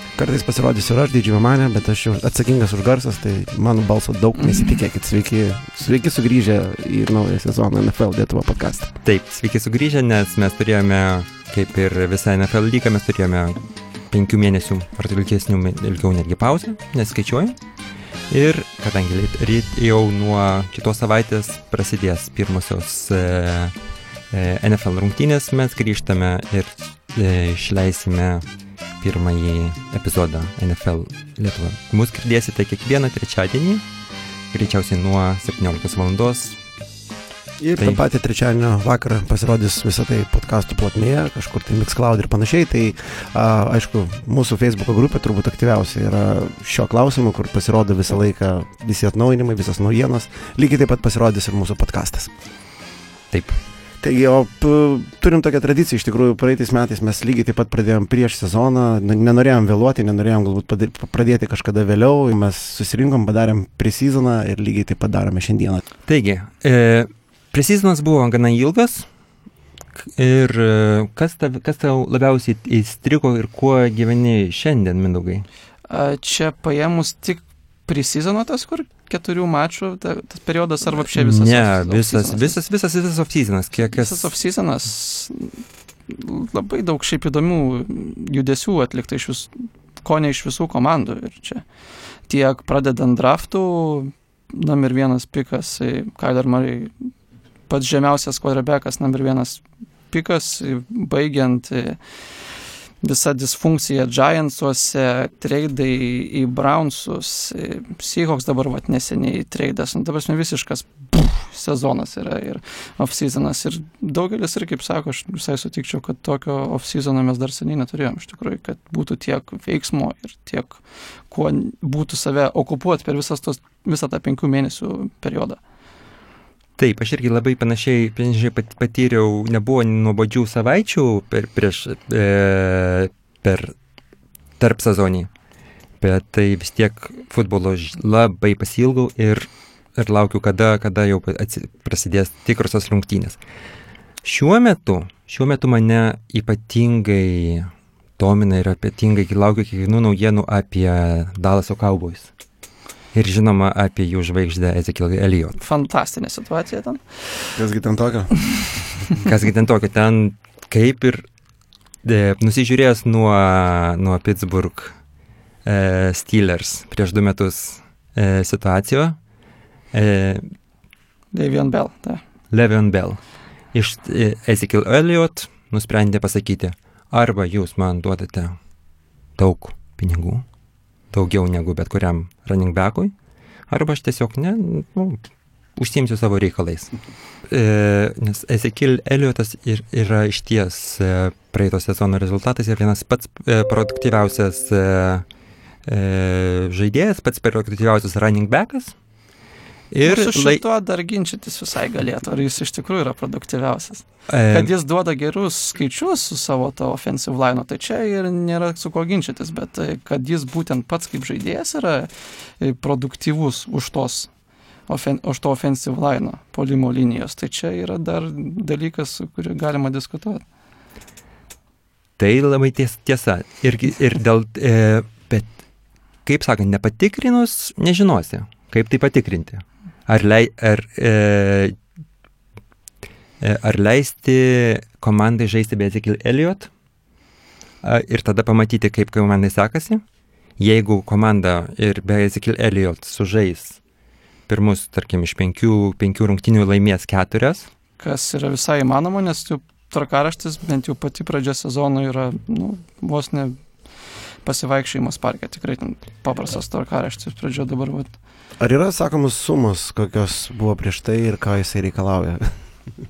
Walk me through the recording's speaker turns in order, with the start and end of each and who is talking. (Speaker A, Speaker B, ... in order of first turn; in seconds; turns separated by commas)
Speaker A: 0.1-9.0, Speaker B: 9.0-17.6, Speaker B: 18.3-23.7, Speaker B: 24.3-28.4, Speaker B: 29.0-33.8, Speaker B: 34.5-36.6, Speaker A: 37.6-52.3, Speaker B: 53.3-53.6, Speaker A: 54.0-65.8, Speaker B: 66.1-69.1, Speaker B: 70.0-75.5, Speaker C: 75.9-82.5, Speaker B: 81.0-84.3, Speaker C: 83.9-89.5, Speaker C: 90.0-91.6, Speaker C: 92.3-96.9, Speaker C: 97.7-102.0, Speaker C: 103.0-125.6, Speaker B: 126.8-133.7, Speaker B: 134.6-135.3, Speaker B: 136.0-143.4, Speaker B: 144.2-152.3, Speaker B: 153.1-155.6, Speaker C: 155.6-157.5, Speaker A: 157.6-158.7, Speaker B: 159.1-161.2, Speaker B: 162.0-164.9, Speaker B: 165.6-169.2, Speaker B: 169.9-170.4, Speaker C: 171.3-172.2, Speaker B: 172.5-173.2, Speaker B: 173.7-178.6, Speaker B: 179.4-180.4, Speaker B: 181.1-183.1, Speaker B: 183.7-186.9, Speaker B: 187.5-195.2, Speaker B: 195.8-198.9, Speaker B: 199.9-200.6, Speaker C: 200.0-214.3, Speaker B: 204.3-204.7, Speaker C: 214.9-220.4, Speaker B: 222.2-225.5, Speaker B: 226.2-231.8, Speaker B: 233.4-236.7, Speaker B: 237.8-240.0, Speaker B: 240.6-243.8, Speaker B: 244.5-247.7, Speaker C: 248.0-253.6, Speaker C: 254.4-258.1, Speaker A: 258.6-262.6